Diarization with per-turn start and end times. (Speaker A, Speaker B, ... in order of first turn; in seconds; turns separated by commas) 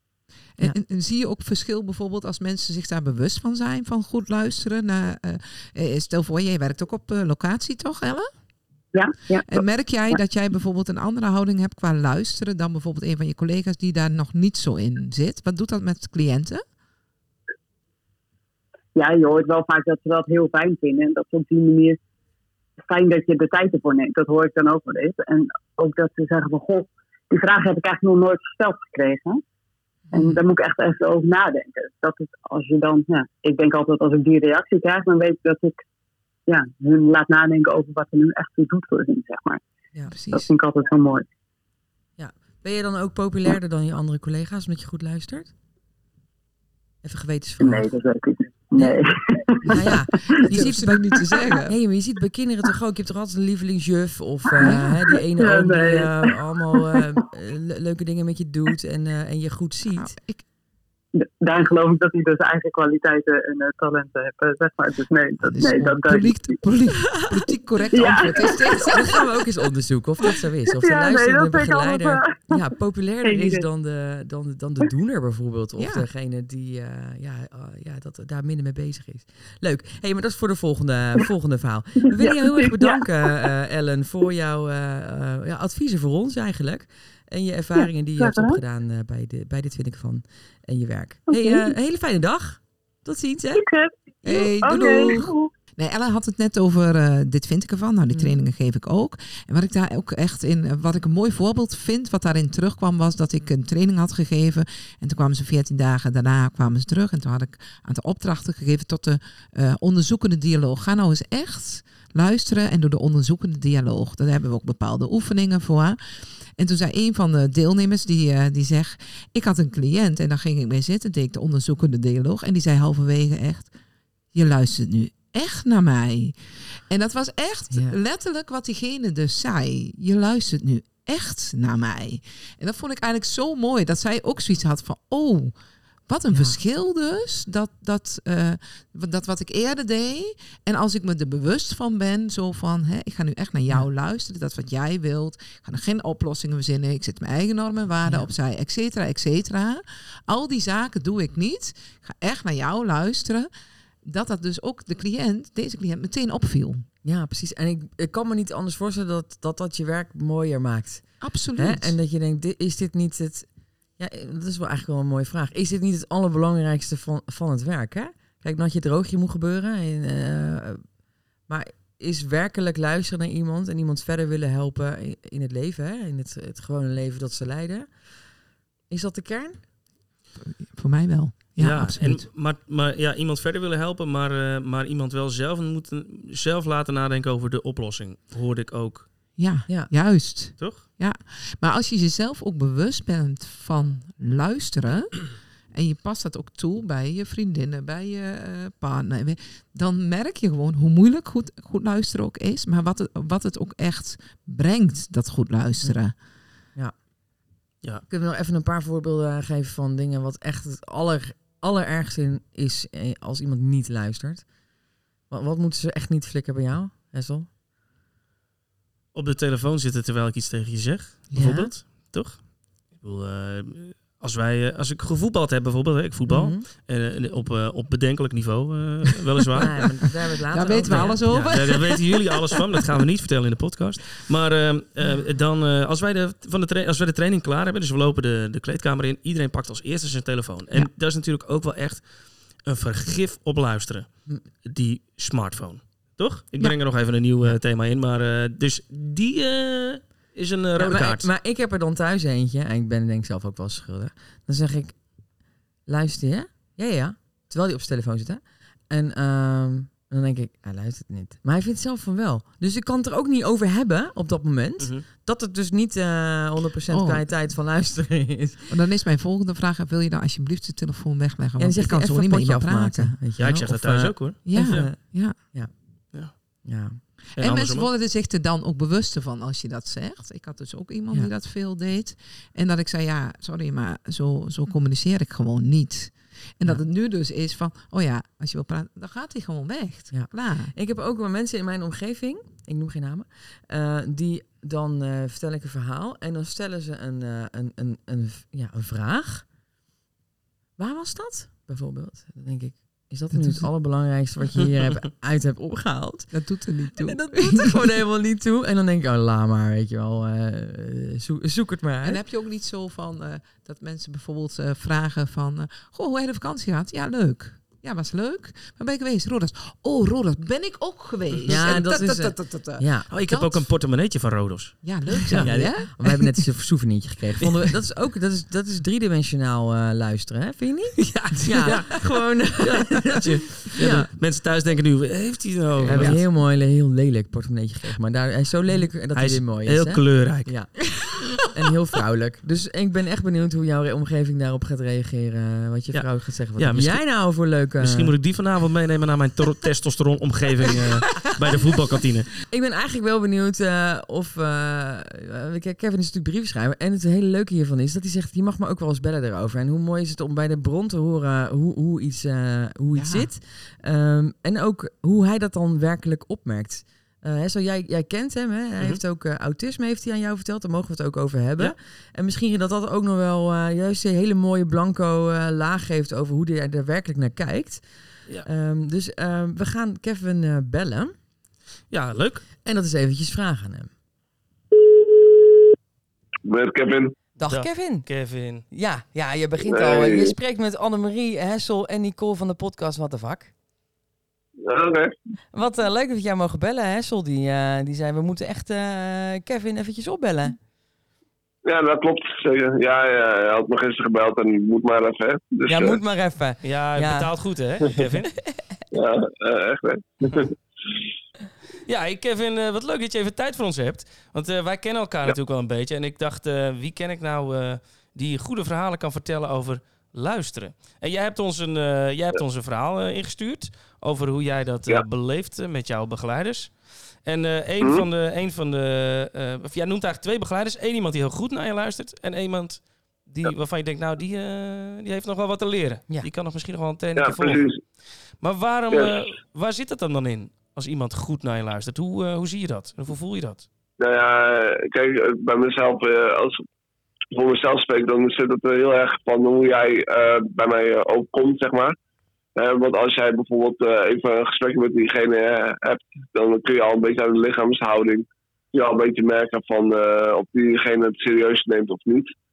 Speaker A: 0.6-8.3, Speaker B: 8.9-10.2, Speaker A: 9.4-16.6, Speaker B: 18.9-22.0, Speaker B: 22.8-29.4, Speaker B: 30.1-35.8, Speaker B: 36.5-39.6, Speaker A: 40.1-40.5, Speaker B: 40.3-41.2, Speaker C: 42.2-45.5, Speaker C: 47.0-47.9, Speaker B: 47.6-50.5, Speaker C: 49.7-60.1, Speaker A: 50.4-51.7, Speaker B: 54.6-57.1, Speaker A: 54.6-54.9, Speaker A: 60.0-60.4, Speaker B: 61.2-66.6, Speaker A: 65.4-69.2, Speaker B: 67.9-69.2, Speaker C: 68.9-93.6, Speaker B: 70.8-72.6, Speaker B: 73.2-73.6, Speaker A: 75.8-76.0, Speaker B: 82.0-83.5, Speaker B: 88.2-88.6, Speaker B: 91.3-91.7, Speaker B: 93.5-95.5, Speaker A: 94.2-116.0, Speaker C: 94.2-95.3, Speaker C: 98.1-98.4, Speaker A: 116.6-123.7, Speaker A: 124.3-126.3, Speaker A: 126.9-135.5, Speaker C: 127.7-128.0, Speaker A: 136.1-153.5, Speaker C: 136.3-136.6, Speaker C: 148.0-148.3, Speaker A: 154.0-156.9, Speaker C: 157.0-163.5, Speaker A: 161.2-161.9, Speaker C: 164.0-170.8, Speaker C: 171.5-177.9, Speaker C: 178.9-179.6, Speaker A: 180.4-182.3, Speaker D: 181.6-189.1, Speaker A: 189.3-206.1, Speaker D: 190.6-190.8, Speaker C: 208.1-214.4, Speaker C: 215.3-217.5, Speaker D: 219.1-229.8, Speaker C: 221.3-221.7, Speaker C: 226.3-226.7, Speaker C: 229.6-231.5, Speaker A: 230.5-232.6, Speaker D: 230.8-251.3, Speaker C: 250.8-255.0, Speaker C: 255.9-268.7, Speaker D: 264.8-265.1, Speaker A: 266.9-267.2, Speaker A: 268.7-273.2, Speaker C: 271.6-275.7, Speaker D: 273.4-274.9, Speaker A: 274.4-275.4, Speaker C: 276.6-277.0, Speaker A: 277.3-290.7, Speaker D: 277.4-277.9, Speaker C: 290.1-299.5, Speaker C: 300.8-312.2, Speaker A: 303.3-303.7, Speaker A: 306.3-307.9, Speaker A: 312.0-323.6, Speaker C: 321.5-323.1, Speaker D: 323.1-325.5, Speaker A: 324.8-326.4, Speaker C: 325.3-334.1, Speaker D: 331.0-336.2, Speaker C: 335.8-348.1, Speaker D: 339.1-340.7, Speaker D: 345.9-347.1, Speaker D: 347.8-352.3, Speaker C: 352.5-377.8, Speaker A: 362.9-363.3, Speaker C: 378.4-381.1, Speaker D: 381.9-382.4, Speaker C: 382.6-383.9, Speaker E: 386.4-387.1, Speaker C: 387.4-388.1, Speaker D: 387.4-388.6, Speaker C: 388.7-393.5, Speaker E: 389.7-390.3, Speaker E: 394.6-395.1, Speaker C: 395.5-400.6, Speaker E: 401.6-406.0, Speaker C: 405.7-407.3, Speaker D: 406.6-408.3, Speaker E: 408.9-410.5, Speaker D: 411.9-437.7, Speaker E: 437.2-437.8, Speaker D: 438.3-443.7, Speaker E: 444.0-446.6, Speaker E: 447.3-451.9, Speaker E: 452.6-462.3